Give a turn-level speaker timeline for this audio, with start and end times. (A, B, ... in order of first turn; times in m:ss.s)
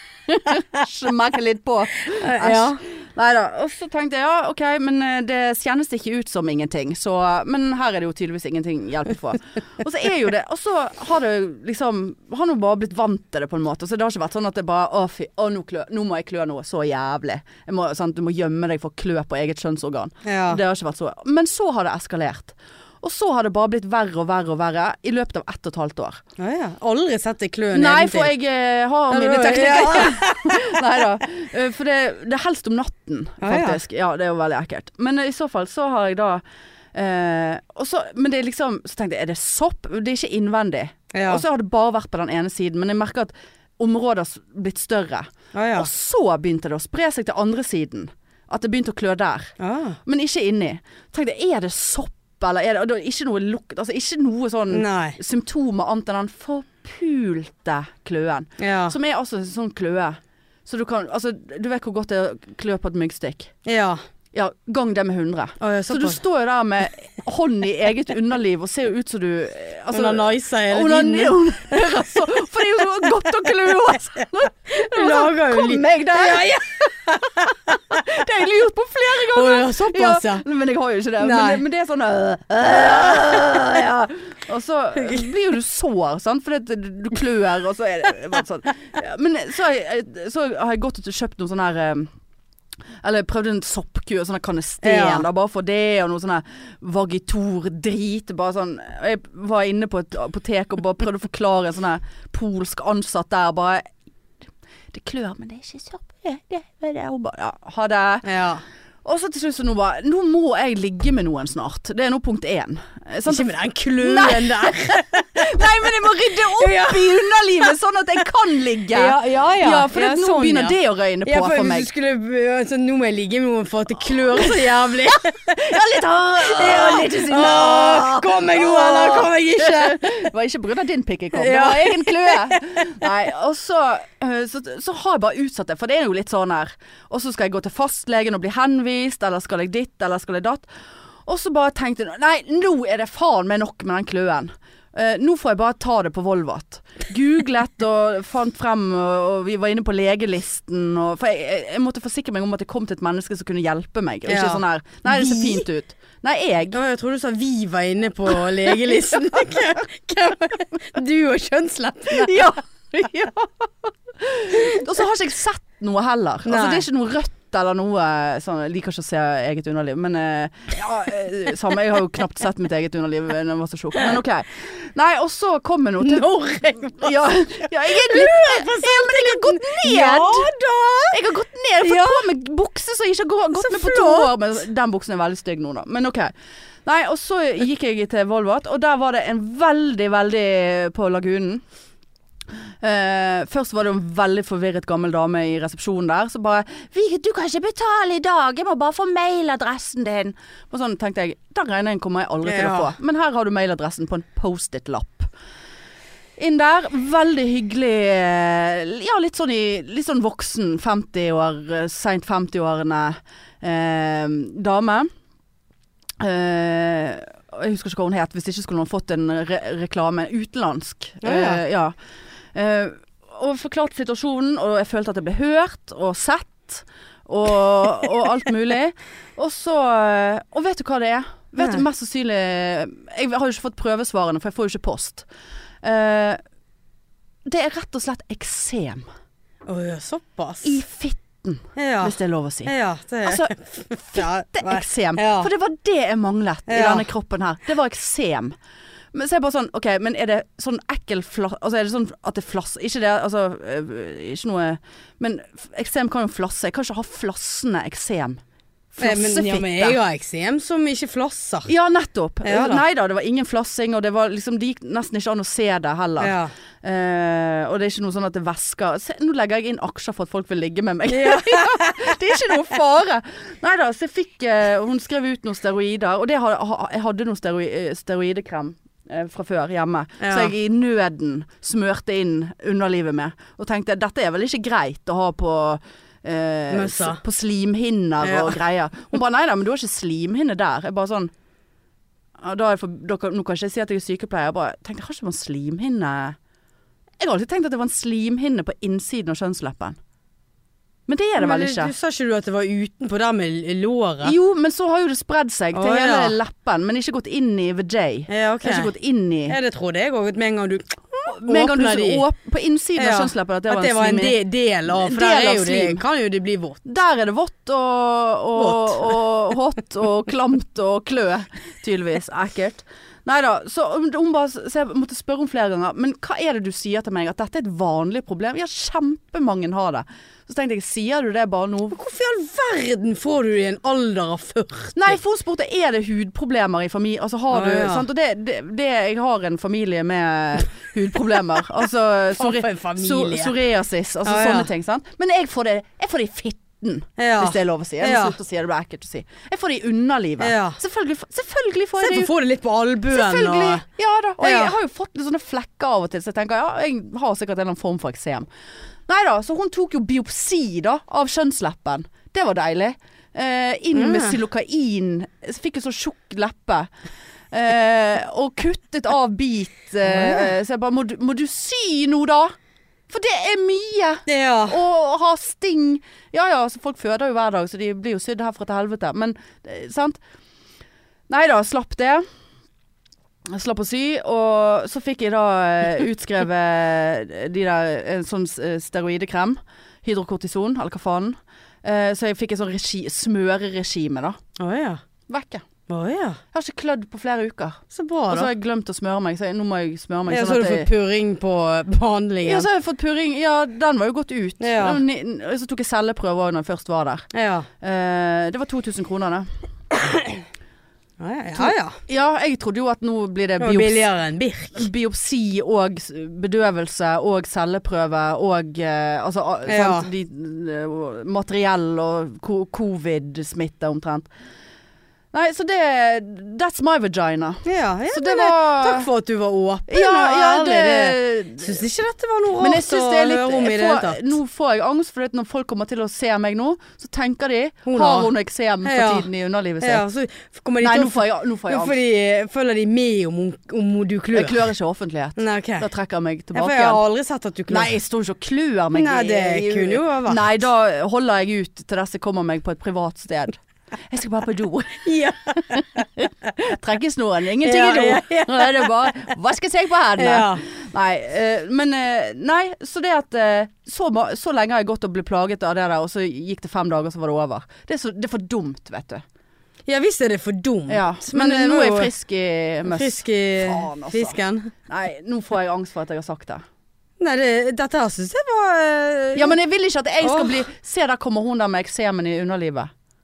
0:00.3-0:26.2 A
0:02.0-0:02.8 B
0:20.2-0:20.6 B
0:26.4-0:28.4 B
0:27.7-0:36.4 A
0:29.1-0:30.8 B
0:33.4-0:33.8 B
0:36.9-0:49.5 A
0:41.1-0:41.4 B
0:45.5-0:45.9 B
0:49.6-0:50.0 B
0:50.0-1:03.5 A
0:54.7-0:55.2 B
0:58.6-0:59.0 B
1:03.6-1:04.0 B
1:04.3-1:32.1 A
1:05.6-1:06.2 B
1:09.9-1:11.8 B
1:14.7-1:17.8 B
1:19.2-1:20.4 B
1:21.2-1:21.6 B
1:25.0-1:25.3 B
1:33.0-1:43.9 A
1:34.8-1:35.3 B
1:44.9-1:48.2 A
1:48.2-1:48.6 B
1:49.0-2:01.9 A
1:53.2-1:57.7 B
1:58.9-2:05.5 B
2:04.3-2:20.7 A
2:06.4-2:10.3 B
2:11.3-2:13.1 B
2:21.2-2:36.8 A
2:34.3-2:35.6 B
2:36.7-2:42.5 B
2:38.3-2:39.7 A
2:42.1-3:00.5 A
2:46.4-2:46.8 B
2:56.0-3:01.2 B
3:01.1-3:06.3 A
3:01.8-3:02.3 B
3:03.6-3:04.3 B
3:06.8-3:11.6 A
3:12.8-3:25.3 A
3:22.4-3:23.0 B
3:26.4-3:35.1 A
3:36.2-3:41.9 A
3:41.2-3:41.6 B
3:42.5-3:55.2 A
3:55.8-3:56.4 A
3:57.4-3:59.0 A
3:59.6-4:00.8 B
4:00.6-4:02.7 A
4:01.8-4:05.5 B
4:03.2-4:03.5 A
4:04.0-4:08.5 A
4:06.7-4:07.0 B
4:09.1-4:18.4 A
4:18.9-4:20.0 A
4:19.0-4:21.7 B
4:21.7-4:51.3 A
4:22.4-4:22.8 B
4:26.2-4:26.5 B
4:31.1-4:32.2 B
4:40.2-4:40.5 B
4:46.7-4:47.2 B
4:48.2-4:48.6 B
4:52.4-4:56.4 A
4:57.2-5:00.0 A
5:01.1-5:01.9 A
5:01.4-5:04.3 B
5:04.2-5:09.6 A
5:05.7-5:06.4 B
5:08.3-5:08.9 B
5:09.5-5:12.2 B
5:11.3-5:16.0 A
5:13.0-5:16.8 B
5:16.8-5:32.0 A
5:18.6-5:19.2 B
5:31.9-5:35.2 B
5:35.0-5:52.3 A
5:37.5-5:38.0 B
5:42.4-5:43.5 B
5:44.2-5:44.7 B
5:47.2-5:48.4 B
5:50.4-5:50.8 B
5:52.0-5:53.8 B
5:53.1-5:58.5 A
5:54.4-5:54.7 B
5:59.1-6:06.9 A
6:03.9-6:04.4 B
6:07.5-6:12.5 A
6:10.1-6:10.5 B
6:13.1-6:20.2 A
6:14.3-6:14.8 B
6:21.3-6:22.2 A
6:23.5-6:34.4 A
6:34.6-6:35.0 B
6:35.3-6:35.6 A
6:35.9-6:36.4 B
6:36.5-6:40.9 A
6:37.9-6:38.5 B
6:40.3-6:42.7 B
6:42.4-6:47.2 A
6:44.6-6:45.0 B
6:47.3-6:47.7 B
6:47.8-6:49.5 A
6:50.0-6:50.4 B
6:51.2-6:52.0 B
6:51.6-6:54.1 A
6:53.6-6:54.9 B
6:54.7-7:04.3 A
6:59.7-7:00.1 B
7:05.3-7:09.1 A
7:07.6-7:14.3 B
7:09.9-7:11.8 A
7:12.6-7:20.0 A
7:17.8-7:18.3 B
7:18.8-7:19.3 B
7:19.8-7:24.6 B
7:20.8-7:22.0 A
7:24.3-7:27.0 A
7:25.4-7:25.9 B
7:26.5-7:27.9 B
7:27.7-7:49.2 A
7:28.9-7:30.5 B
7:35.0-7:36.0 B
7:37.6-7:38.9 B
7:40.2-7:40.6 B
7:49.9-7:52.1 B
7:50.9-7:56.6 A
7:52.8-7:54.7 B
7:57.2-7:59.6 B
7:59.3-8:02.9 A
8:00.2-8:00.6 B